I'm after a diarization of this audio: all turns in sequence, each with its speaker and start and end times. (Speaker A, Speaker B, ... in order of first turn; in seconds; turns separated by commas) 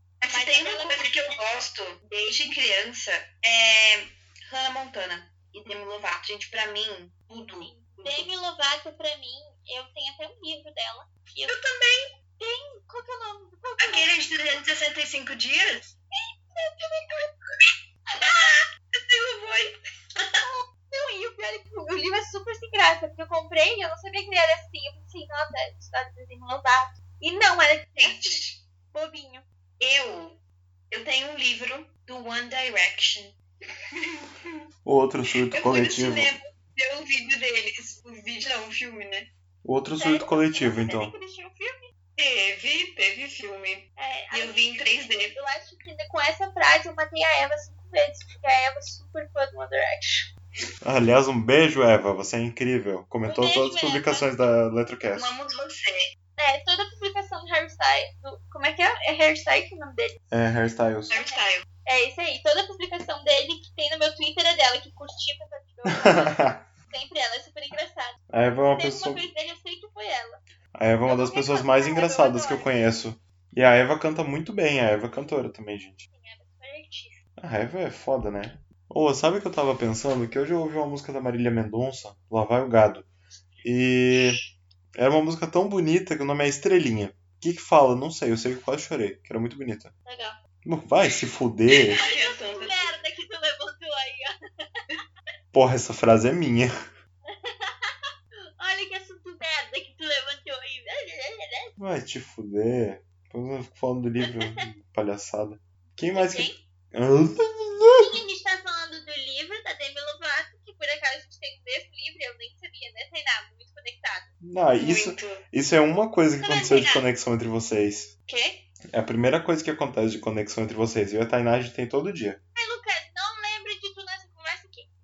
Speaker A: 0.2-8.3, Speaker B: 0.3-1.1, Speaker B: 7.6-11.6, Speaker A: 11.5-12.1, Speaker B: 12.4-14.3, Speaker A: 13.8-15.9, Speaker B: 16.1-17.3, Speaker A: 18.2-20.4, Speaker B: 20.4-28.4, Speaker A: 28.0-28.6, Speaker B: 28.9-29.4, Speaker A: 29.8-33.4, Speaker A: 33.9-34.6, Speaker C: 34.8-36.3, Speaker A: 35.5-39.3, Speaker C: 39.6-41.1, Speaker B: 40.0-41.9, Speaker A: 42.2-45.3, Speaker B: 44.0-50.3, Speaker C: 50.8-55.3, Speaker B: 53.2-54.4, Speaker A: 55.1-56.0, Speaker B: 56.4-60.1, Speaker C: 60.3-61.2, Speaker A: 61.1-61.6, Speaker B: 61.1-70.4, Speaker C: 65.9-66.6, Speaker C: 68.3-69.2, Speaker C: 70.7-76.0, Speaker B: 71.1-72.7, Speaker B: 76.1-77.2, Speaker C: 77.4-83.1, Speaker C: 83.6-84.4, Speaker C: 85.0-89.9, Speaker B: 90.0-90.4, Speaker C: 90.6-92.0, Speaker A: 91.9-93.0, Speaker B: 92.0-94.8, Speaker C: 95.5-96.7, Speaker B: 97.2-101.7, Speaker C: 101.8-108.2, Speaker B: 104.2-104.6, Speaker B: 106.1-106.5, Speaker B: 108.0-114.3, Speaker C: 114.4-118.1, Speaker A: 114.8-115.4, Speaker B: 116.4-117.0, Speaker A: 118.3-118.6, Speaker C: 118.9-122.4, Speaker B: 122.5-124.9